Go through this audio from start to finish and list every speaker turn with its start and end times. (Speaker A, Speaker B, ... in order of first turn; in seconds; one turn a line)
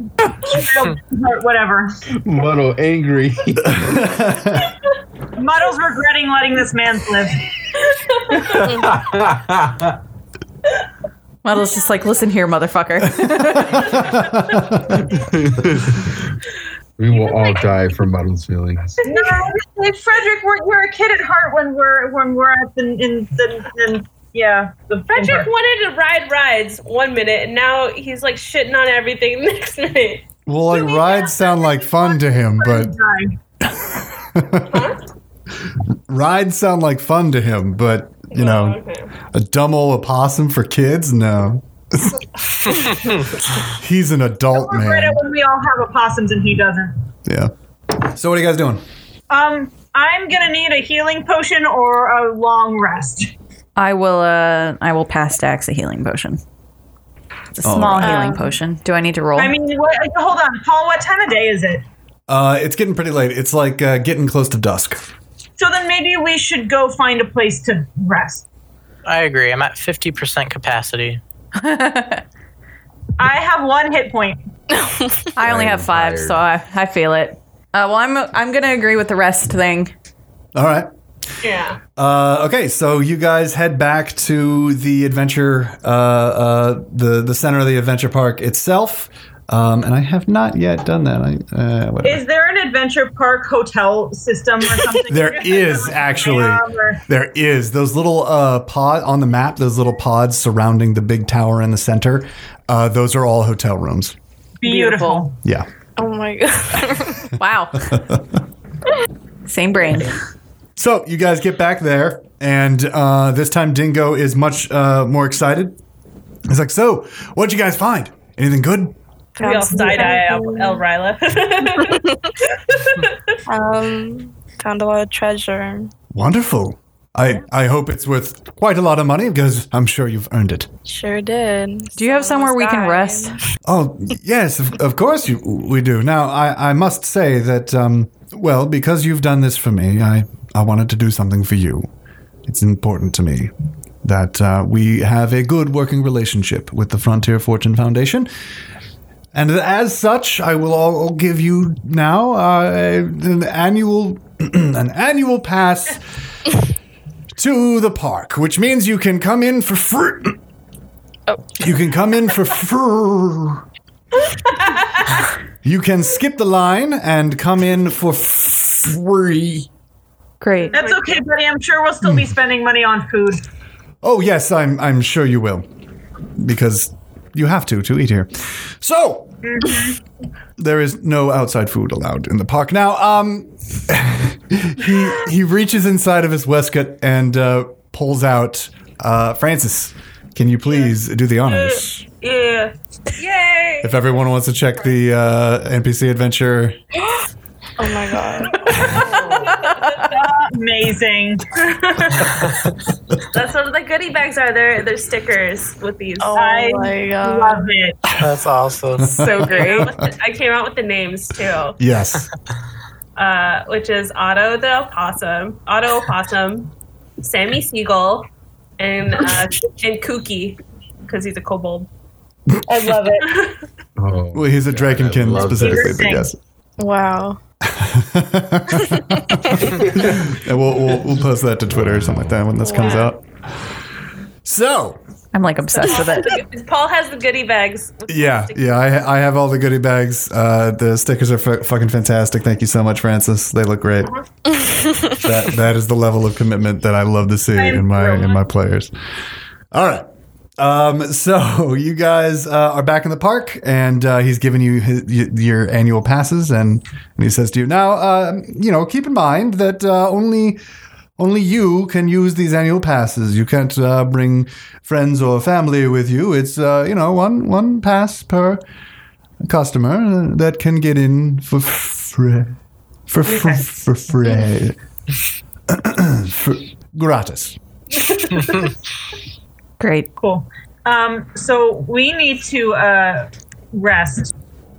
Speaker A: 0.5-1.9
Speaker B: 2.2-4.4
Speaker C: 3.8-4.7
Speaker A: 5.3-7.4
Speaker D: 7.8-8.9
Speaker B: 8.5-10.0
Speaker E: 8.6-9.0
Speaker F: 11.4-14.2
Speaker C: 13.9-15.0
Speaker B: 15.1-16.2
Speaker B: 17.0-19.0
Speaker D: 17.2-17.8
Speaker A: 19.0-25.5
Speaker D: 25.1-31.5
Speaker C: 30.5-33.0
Speaker A: 32.1-33.4
Speaker C: 33.8-34.9
Speaker D: 34.6-35.0
Speaker C: 36.1-38.8
Speaker D: 38.3-39.1
Speaker C: 39.3-45.2
Speaker A: 44.5-47.0
Speaker C: 47.3-48.8
Speaker A: 49.3-53.3
Speaker F: 53.8-56.4
Speaker F: 57.5-59.5
Speaker C: 57.6-58.1
Speaker E: 58.0-58.5
Speaker A: 59.4-61.9
Speaker C: 62.3-65.1
Speaker A: 65.6-68.5
Speaker G: 69.0-71.2
Speaker F: 71.5-72.2
Speaker A: 73.2-74.4
Speaker E: 74.7-75.3
Speaker F: 75.4-79.9
Speaker B: 75.4-76.4
Speaker C: 80.5-80.9
Speaker D: 81.4-81.8
Speaker C: 82.0-92.2
Speaker A: 92.0-97.0
Speaker C: 95.0-104.2
Speaker A: 104.6-105.4
Speaker F: 104.6-105.3
Speaker C: 105.4-105.7
Speaker E: 106.0-107.3
Speaker F: 107.3-108.1
Speaker C: 107.9-108.2
Speaker F: 109.5-110.2
Speaker C: 110.8-115.8
Speaker C: 116.5-119.0
Speaker E: 119.4-120.9
Speaker D: 119.4-122.0
Speaker D: 122.6-123.3
Speaker E: 123.5-125.9
Speaker C: 126.1-130.7
Speaker E: 130.9-133.4
Speaker F: 132.0-133.4
Speaker C: 133.7-141.9
Speaker C: 142.5-148.3
Speaker C: 149.3-156.0
Speaker C: 157.3-160.4
Speaker E: 161.3-161.6
Speaker C: 161.6-163.6
Speaker D: 164.5-165.1
Speaker C: 165.6-169.7
Speaker F: 170.4-170.8
Speaker D: 170.6-171.1
Speaker A: 170.7-173.4
Speaker C: 172.0-172.3
Speaker C: 174.0-175.7
Speaker C: 176.3-179.4
Speaker A: 179.4-180.0
Speaker C: 180.6-192.1
Speaker D: 191.5-194.0
Speaker C: 193.8-196.8
Speaker E: 197.8-199.7
Speaker D: 198.5-200.2
Speaker A: 200.1-201.4
Speaker D: 201.6-202.6
Speaker D: 203.2-206.7
Speaker E: 206.2-207.7
Speaker A: 206.4-208.0
Speaker G: 208.1-209.1
Speaker C: 209.0-210.1
Speaker F: 209.1-209.9
Speaker D: 209.3-211.8
Speaker C: 211.8-212.3
Speaker D: 213.2-221.9
Speaker A: 222.7-223.3
Speaker D: 223.0-223.6
Speaker B: 224.0-226.1
Speaker C: 224.3-226.4
Speaker A: 225.4-226.3
Speaker E: 226.8-227.4
Speaker C: 227.6-233.3
Speaker E: 228.9-229.3
Speaker B: 229.8-230.1
Speaker B: 231.8-232.4
Speaker E: 232.6-233.1
Speaker D: 232.8-233.2
Speaker C: 234.4-235.0
Speaker F: 235.3-236.4
Speaker D: 235.8-238.7
Speaker C: 238.1-244.2
Speaker C: 245.1-248.9
Speaker A: 247.5-248.4
Speaker C: 249.7-250.1
Speaker C: 250.6-260.6
Speaker C: 261.2-268.6
Speaker C: 269.4-272.6
Speaker C: 273.1-274.8
Speaker A: 273.3-273.6
Speaker C: 275.7-277.6
Speaker D: 278.0-278.6
Speaker F: 279.8-280.1
Speaker A: 280.2-284.3